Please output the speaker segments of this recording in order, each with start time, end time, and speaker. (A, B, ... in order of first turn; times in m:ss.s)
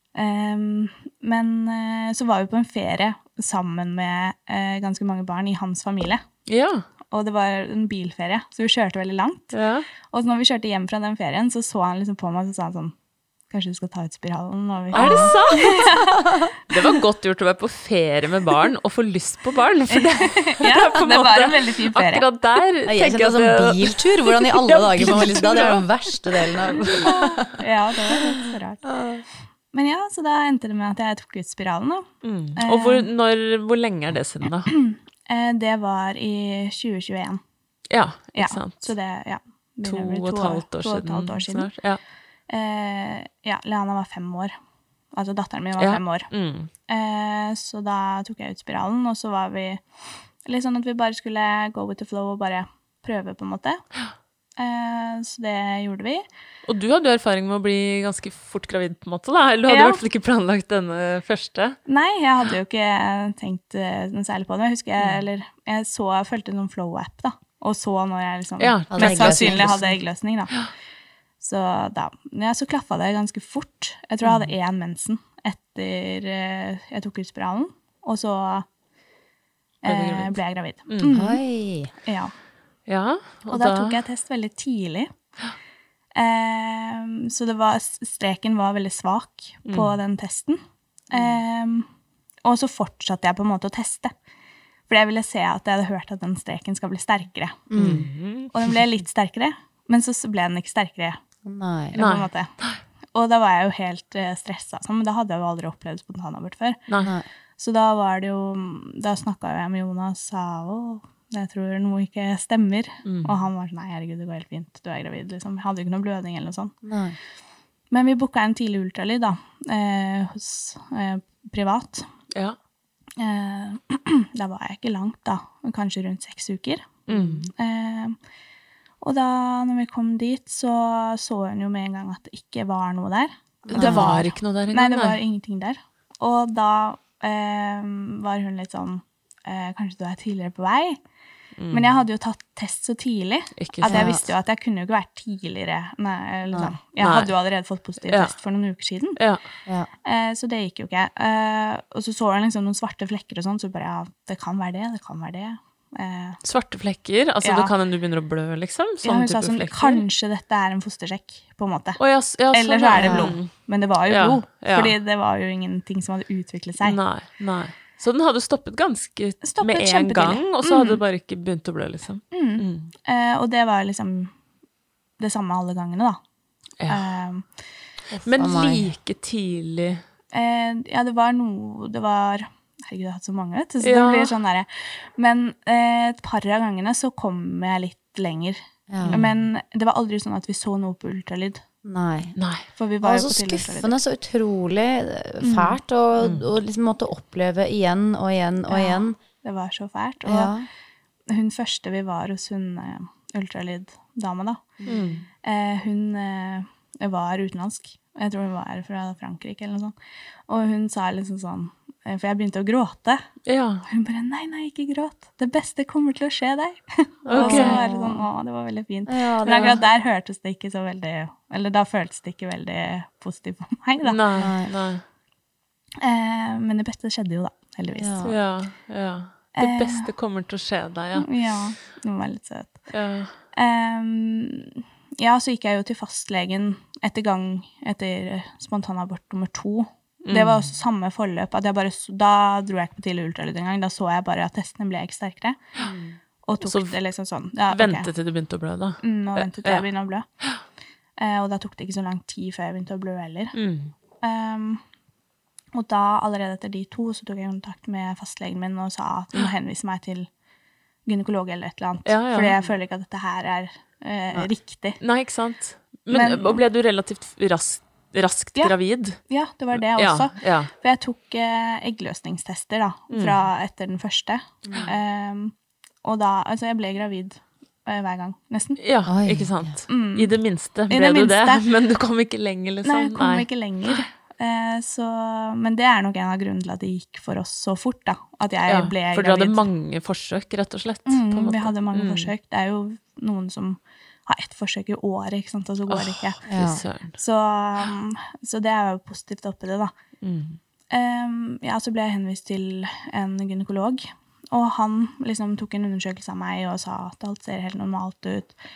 0:00.1-0:06.2 A
0:06.5-0:06.8 B
0:07.1-0:12.9 A
0:09.5-0:09.9 B
0:13.5-0:16.2 A
0:14.9-0:15.9 B
0:14.9-0:16.4 C
0:16.7-0:25.9 B
0:19.9-0:22.3 A
0:22.9-0:27.6 C
0:27.0-0:28.8 A
0:28.9-0:29.2 C
0:29.7-0:32.1 A
0:32.2-0:34.8 B
0:32.6-0:33.1 A
0:34.8-0:37.4 A
0:37.9-0:38.9 B
0:38.4-0:41.7 A
0:39.8-0:42.0 B
0:42.5-0:44.5 A
0:45.1-0:46.3 A
0:45.8-0:46.7 B
0:46.9-0:49.8 A
0:50.4-0:53.8 A
0:54.6-0:56.2 A
0:56.6-1:01.8 B
0:59.7-1:00.0 A
1:01.9-1:10.5 A
1:08.6-1:09.9 B
1:08.9-1:10.0 C
1:11.4-1:18.6 A
1:19.8-1:21.4 A
1:19.8-1:20.4 B
1:20.9-1:21.1 B
1:21.1-1:21.9 C
1:22.0-1:22.3 A
1:22.9-1:24.0 B
1:23.5-1:25.1 A
1:26.2-1:31.9 A
1:29.6-1:29.9 B
1:32.4-1:34.1 A
1:34.9-1:37.7 A
1:37.7-1:38.1 C
1:37.8-1:38.8 B
1:38.5-1:41.2 A
1:41.4-1:42.0 C
1:41.9-1:42.5 A
1:42.0-1:42.8 B
1:43.1-1:46.8 A
1:47.6-1:56.7 A
1:53.0-1:53.3 B
1:56.8-1:57.2 C
1:57.9-2:02.1 A
2:03.2-2:07.0 A
2:07.1-2:07.5 B
2:07.1-2:07.4 C
2:07.5-2:08.2 A
2:09.0-2:21.0 A
2:13.6-2:14.3 C
2:13.8-2:15.2 B
2:21.6-2:22.0 B
2:21.7-2:29.2 A
2:23.6-2:24.2 B
2:23.9-2:24.2 C
2:27.0-2:27.3 B
2:28.1-2:28.4 B
2:29.2-2:29.4 B
2:30.0-2:36.4 A
2:36.4-2:40.0 B
2:37.4-2:37.7 A
2:39.0-2:47.0 A
2:42.0-2:45.0 B
2:43.0-2:43.4 C
2:46.8-2:52.9 B
2:49.4-2:51.0 A
2:52.3-2:54.3 A
2:55.2-2:56.2 A
2:56.9-2:57.4 A
2:58.1-3:00.0 B
2:58.4-2:58.9 C
3:00.3-3:11.6 A
3:03.8-3:04.4 B
3:08.9-3:09.2 C
3:09.0-3:09.3 B
3:11.8-3:12.4 C
3:12.4-3:12.6 B
3:12.8-3:14.0 A
3:13.0-3:19.2 C
3:15.4-3:15.8 A
3:16.2-3:16.4 B
3:18.7-3:20.5 A
3:20.2-3:20.7 C
3:21.3-3:24.8 A
3:24.8-3:25.2 C
3:24.9-3:25.2 B
3:25.4-3:30.0 A
3:30.5-3:33.2 A
3:33.5-3:33.8 B
3:33.9-3:44.2 A
3:37.3-3:37.8 B
3:37.3-3:38.2 C
3:39.1-3:39.8 C
3:44.0-3:45.0 B
3:44.4-3:44.7 C
3:46.0-3:48.2 A
3:48.0-3:48.4 C
3:48.2-3:51.3 B
3:49.6-3:50.1 A
3:51.2-3:52.9 A
3:52.9-3:53.3 B
3:53.6-4:05.6 A
4:00.3-4:00.7 B
4:05.8-4:06.2 C
4:06.5-4:08.1 A
4:06.6-4:07.0 B
4:07.7-4:09.9 B
4:09.0-4:10.3 A
4:11.2-4:13.6 A
4:13.5-4:13.9 B
4:14.2-4:14.8 A
4:15.7-4:20.3 A
4:21.1-4:25.0 A
4:22.1-4:22.6 B
4:25.0-4:29.2 B
4:26.1-4:26.6 A
4:28.6-4:35.5 A
4:29.7-4:30.7 B
4:33.1-4:33.4 B
4:34.6-4:34.9 C
4:36.0-4:38.8 A
4:38.8-4:44.0 B
4:39.1-4:39.7 C
4:39.9-4:40.3 A
4:40.9-4:41.6 A
4:42.8-4:49.6 A
4:48.7-4:52.3 B
4:51.1-4:56.4 A
4:55.9-4:57.1 B
4:56.5-4:56.8 C
4:57.1-4:59.9 A
5:00.2-5:00.6 B
5:00.9-5:08.6 A